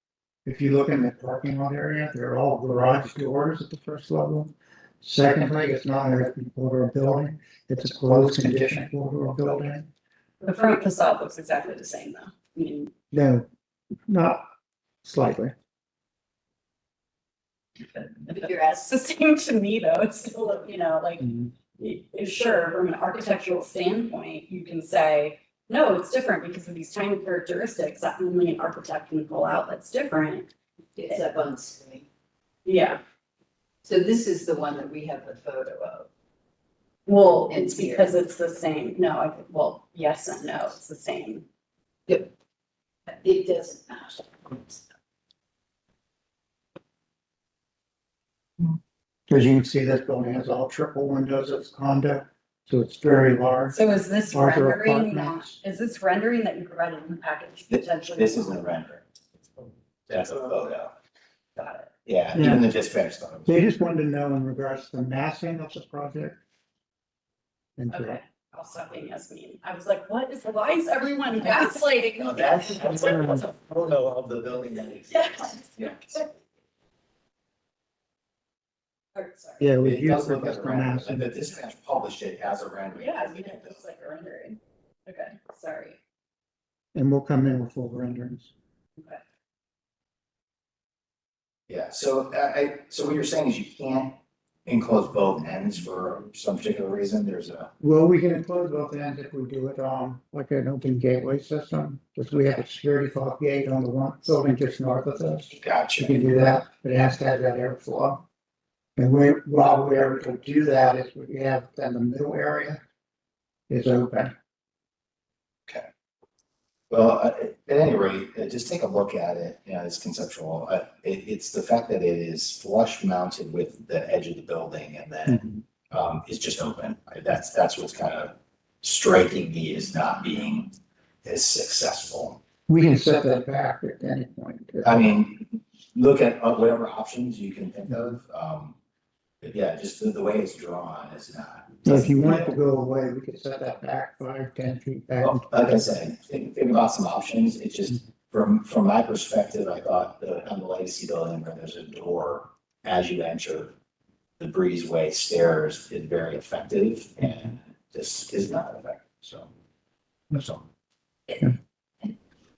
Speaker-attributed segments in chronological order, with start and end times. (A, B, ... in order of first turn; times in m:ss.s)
0:00.4-0:09.9 A
0:10.4-0:12.9 B
0:13.1-0:13.5 A
0:14.1-0:14.4 A
0:15.0-0:15.5 A
0:18.3-0:30.5 B
0:31.0-0:32.1 C
0:32.7-0:33.0 B
0:33.8-0:36.1 C
0:37.1-0:41.5 B
0:37.5-0:38.2 C
0:43.1-0:44.9 C
0:49.3-0:53.8 A
0:53.7-0:58.7 B
0:54.3-0:55.6 A
0:57.7-0:59.0 D
1:00.1-1:00.9 D
1:01.6-1:01.9 B
1:02.0-1:03.6 D
1:02.4-1:02.7 A
1:03.5-1:06.4 A
1:07.8-1:08.2 A
1:07.9-1:12.8 B
1:12.2-1:16.2 D
1:15.1-1:16.2 B
1:19.2-1:19.6 B
1:19.6-1:21.4 A
1:19.8-1:23.8 D
1:22.9-1:26.0 B
1:27.0-1:28.5 A
1:31.7-1:37.7 D
1:37.8-1:48.2 A
1:45.6-1:46.1 D
1:49.0-1:52.8 A
1:53.7-1:54.3 A
1:56.9-2:12.4 D
2:12.7-2:15.1 A
2:14.8-2:18.8 D
2:19.4-2:22.5 D
2:21.8-2:25.8 A
2:25.2-2:33.7 D
2:34.4-2:39.5 D
2:40.3-2:40.7 D